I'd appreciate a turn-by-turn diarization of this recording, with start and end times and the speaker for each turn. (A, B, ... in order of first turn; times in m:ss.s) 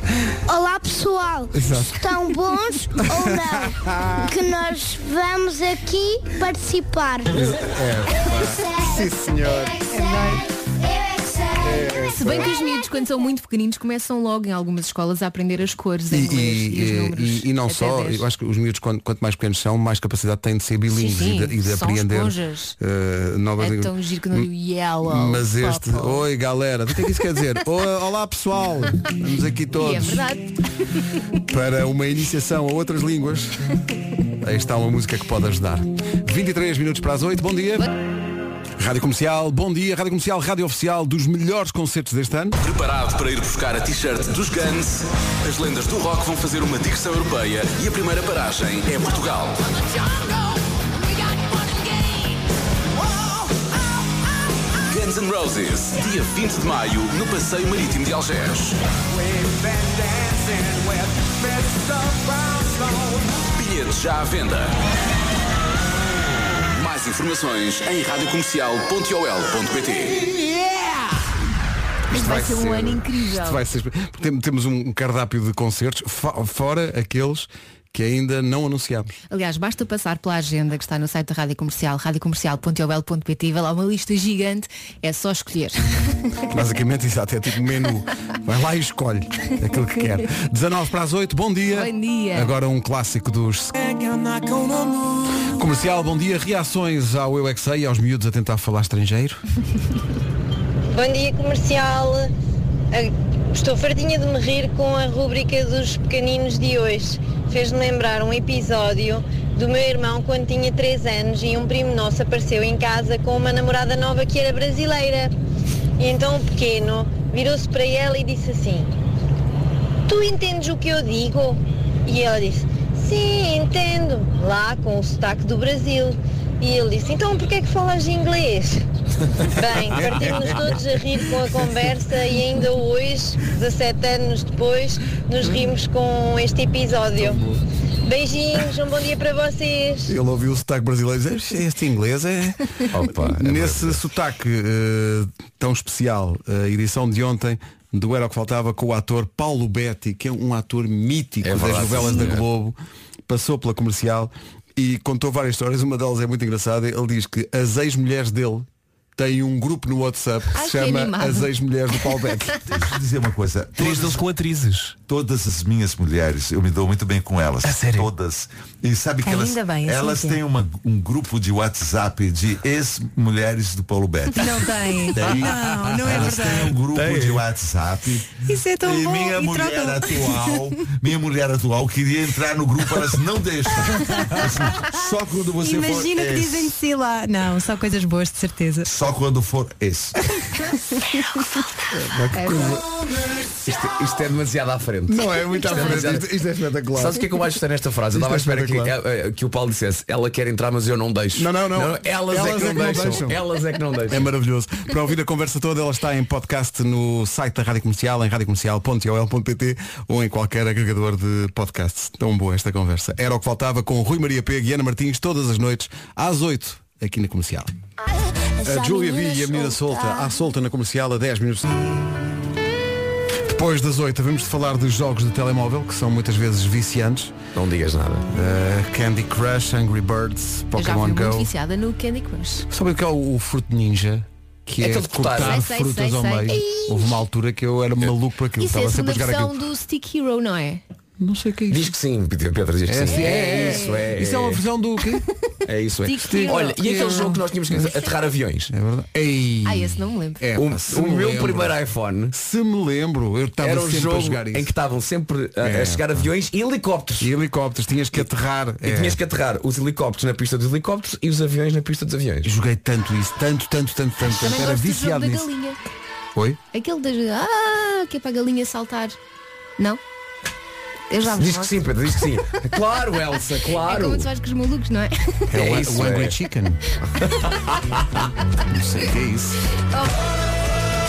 0:00.5-0:07.4 A
0:01.5-0:02.4 B
0:03.0-0:04.3 B
0:07.3-0:10.3 B
0:11.6-0:12.5 B
0:12.0-0:18.2 C
0:16.1-0:24.5 B
0:20.9-0:22.8 C
0:23.6-0:26.2 C
0:25.0-0:30.3 B
0:29.8-0:30.5 C
0:31.5-0:33.7 B
0:34.4-0:37.9 B
0:38.8-0:42.6 B
0:42.6-0:49.8 D
0:54.9-0:58.8 D
1:03.4-1:04.7 D
1:06.7-1:10.3 D
1:10.3-1:10.9 B
1:12.1-1:13.6 C
1:12.1-1:19.1 B
1:19.3-1:26.5 C
1:26.5-1:33.8 B
1:31.7-1:32.5 C
1:35.4-1:39.4 B
1:40.9-1:42.3 E
1:42.9-1:55.3 E
1:56.0-1:58.9 E
2:00.1-2:08.8 E
2:09.4-2:17.4 E
2:09.9-2:10.9 B
2:17.2-2:17.6 B
2:18.0-2:20.1 E
2:20.1-2:32.8 B
2:22.9-2:24.0 F
2:31.4-2:32.4 F
2:33.3-2:42.7 B
2:40.5-2:41.5 C
2:42.2-2:42.8 C
2:42.7-2:44.3 G
2:43.8-2:44.7 B
2:45.1-3:06.8 G
2:47.7-2:48.1 B
2:49.2-2:50.4 H
2:54.4-2:56.8 H
2:58.5-3:00.6 H
3:05.6-3:08.9 H
3:08.9-3:10.2 G
3:11.9-3:12.8 B
3:12.3-3:12.8 C
3:13.6-3:16.3 F
3:15.1-3:17.2 B
3:17.0-3:24.3 F
3:18.1-3:18.9 B
3:21.4-3:23.4 B
3:24.1-3:37.7 B
3:38.6-3:41.9 B
3:38.6-3:40.2 A
3:43.5-3:47.4 B
3:47.6-3:48.3 F
3:48.3-3:51.5 B
3:50.8-3:52.7 C
3:52.7-3:59.6 B
3:54.8-3:55.6 F
3:55.4-3:56.6 C
3:58.6-4:00.8 C
4:01.2-4:02.0 B
4:01.7-4:04.6 F
4:02.9-4:05.3 B
4:03.1-4:04.0 C
4:05.7-4:08.7 F
4:06.0-4:07.1 C
4:06.2-4:08.1 B
4:08.7-4:11.8 B
4:09.6-4:10.4 C
4:10.6-4:12.3 F
4:12.3-4:14.7 B
4:13.6-4:17.3 F
4:15.6-4:16.3 B
4:17.2-4:19.2 B
4:18.8-4:22.5 F
4:22.4-4:25.5 B
4:24.2-4:25.8 C
4:26.4-4:26.6 B
4:26.7-4:29.2 C
4:31.1-4:31.8 C
4:31.2-4:34.3 F
4:33.8-4:35.4 C
4:35.5-4:36.8 B
4:35.5-4:36.4 F
4:37.2-4:38.2 F
4:38.6-4:39.6 B